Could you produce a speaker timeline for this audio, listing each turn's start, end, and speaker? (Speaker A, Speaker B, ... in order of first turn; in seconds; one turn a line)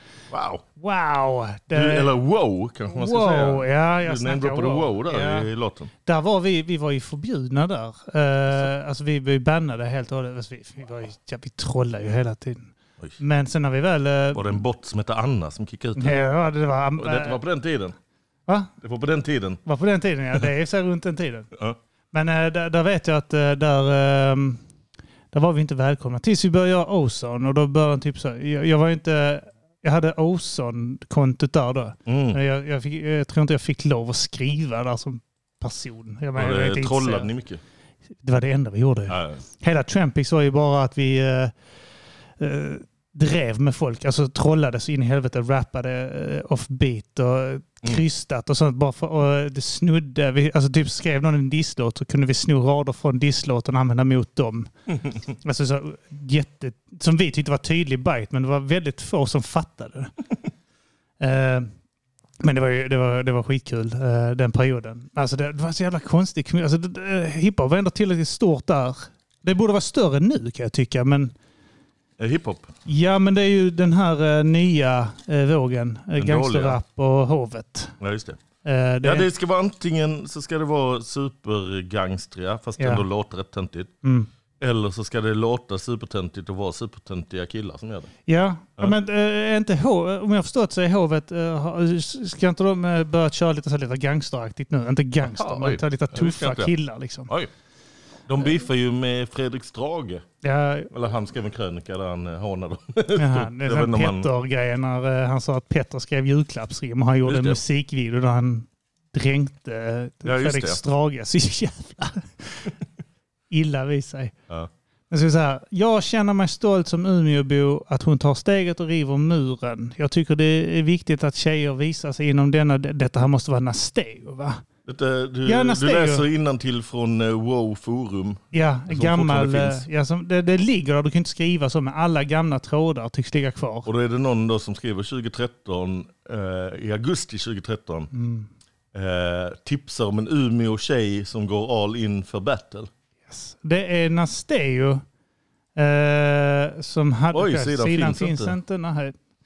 Speaker A: 0.3-0.6
Speaker B: 0.8-2.1
Speaker A: 1.7-5.9
Speaker B: 2.9-5.5
Speaker B: 6.0-14.7
Speaker A: 14.3-16.3
Speaker B: 16.0-17.4
Speaker A: 17.0-17.9
Speaker A: 18.8-19.6
Speaker B: 19.6-21.5
Speaker B: 22.1-24.6
Speaker B: 25.3-37.3
Speaker A: 32.1-32.4
Speaker A: 36.4-37.6
Speaker B: 38.2-41.5
Speaker A: 39.1-39.4
Speaker B: 42.4-54.7
Speaker B: 55.4-60.1
Speaker B: 61.2-61.7
Speaker B: 62.4-71.3
Speaker A: 72.2-72.7
Speaker B: 72.9-77.9
Speaker A: 76.2-76.8
Speaker A: 78.0-78.4
Speaker B: 78.7-79.3
Speaker A: 79.0-83.9
Speaker B: 82.8-83.0
Speaker A: 84.6-88.1
Speaker B: 88.3-97.3
Speaker A: 95.2-96.8
Speaker A: 98.3-100.2
Speaker B: 100.4-100.9
Speaker A: 100.9-104.3
Speaker B: 103.2-112.7
Speaker A: 107.2-107.6
Speaker A: 110.2-110.8
Speaker B: 113.5-114.3
Speaker B: 115.1-124.6
Speaker A: 124.9-129.9
Speaker B: 125.5-126.3
Speaker B: 128.5-133.9
Speaker A: 133.9-138.1
Speaker B: 138.1-138.5
Speaker A: 138.9-142.9
Speaker B: 143.3-145.0
Speaker B: 145.8-149.2
Speaker A: 147.3-148.6